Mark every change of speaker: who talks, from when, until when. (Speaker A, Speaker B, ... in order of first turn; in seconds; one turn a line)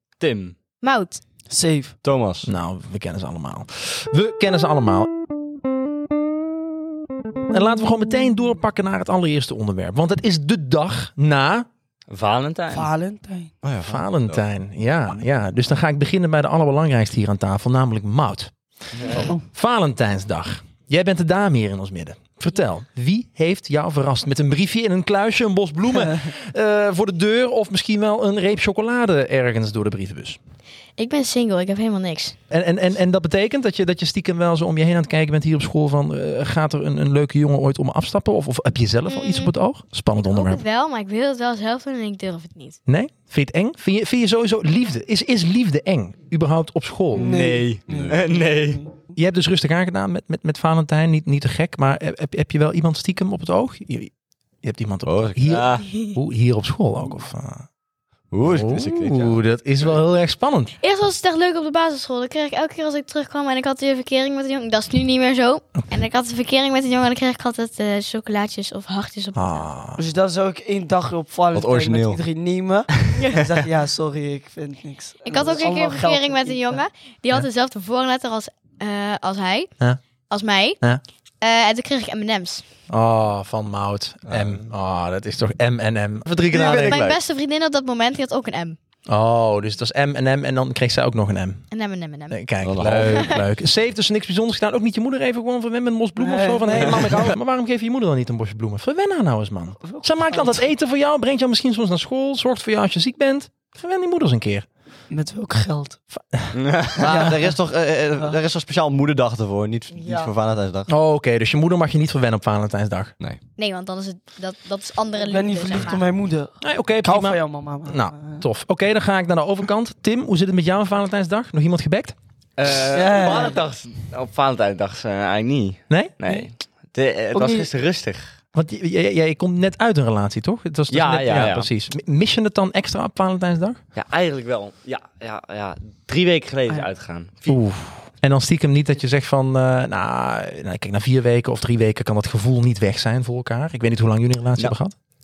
Speaker A: 0.2-0.6
Speaker B: 0.8-1.2
Speaker C: 1.5-1.9
Speaker D: 2.0-2.5
Speaker E: 2.5-5.1
Speaker E: 7.5-11.7
Speaker A: 12.1-12.9
Speaker C: 12.7-13.5
Speaker D: 13.6-14.4
Speaker E: 13.8-18.5
Speaker E: 19.5-30.4
Speaker B: 31.0-32.4
Speaker E: 32.5-40.6
Speaker B: 39.1-39.5
Speaker B: 40.2-42.8
Speaker E: 42.9-47.4
Speaker C: 47.1-48.9
Speaker A: 47.1-48.8
Speaker D: 47.9-48.2
Speaker E: 49.1-57.7
Speaker D: 55.1-55.5
Speaker A: 55.5-55.9
Speaker D: 58.3-59.4
Speaker E: 58.4-60.8
Speaker B: 60.8-69.7
Speaker E: 69.3-70.0
Speaker C: 70.0-76.8
Speaker D: 71.5-72.2
Speaker B: 73.2-73.5
Speaker B: 75.3-79.7
Speaker B: 80.3-80.8
Speaker B: 81.4-82.6
Speaker E: 82.9-87.1
Speaker D: 84.3-84.6
Speaker D: 86.5-87.2
Speaker B: 86.5-88.8
Speaker E: 89.1-91.7
Speaker B: 91.7-92.4
Speaker E: 92.3-104.7
Speaker D: 92.6-93.3
Speaker B: 93.0-93.4
Speaker C: 96.2-97.3
Speaker C: 99.9-100.6
Speaker C: 105.1-106.0
Speaker E: 106.1-106.5
Speaker A: 106.5-107.1
Speaker D: 107.0-110.9
Speaker C: 107.0-107.5
Speaker C: 109.9-110.3
Speaker E: 110.9-113.2
Speaker B: 113.6-116.0
Speaker C: 115.2-118.4
Speaker E: 116.6-122.2
Speaker A: 122.6-128.3
Speaker C: 122.9-123.6
Speaker E: 125.9-126.1
Speaker C: 127.3-127.7
Speaker E: 128.5-133.8
Speaker A: 130.9-131.7
Speaker A: 133.9-137.6
Speaker E: 137.5-144.9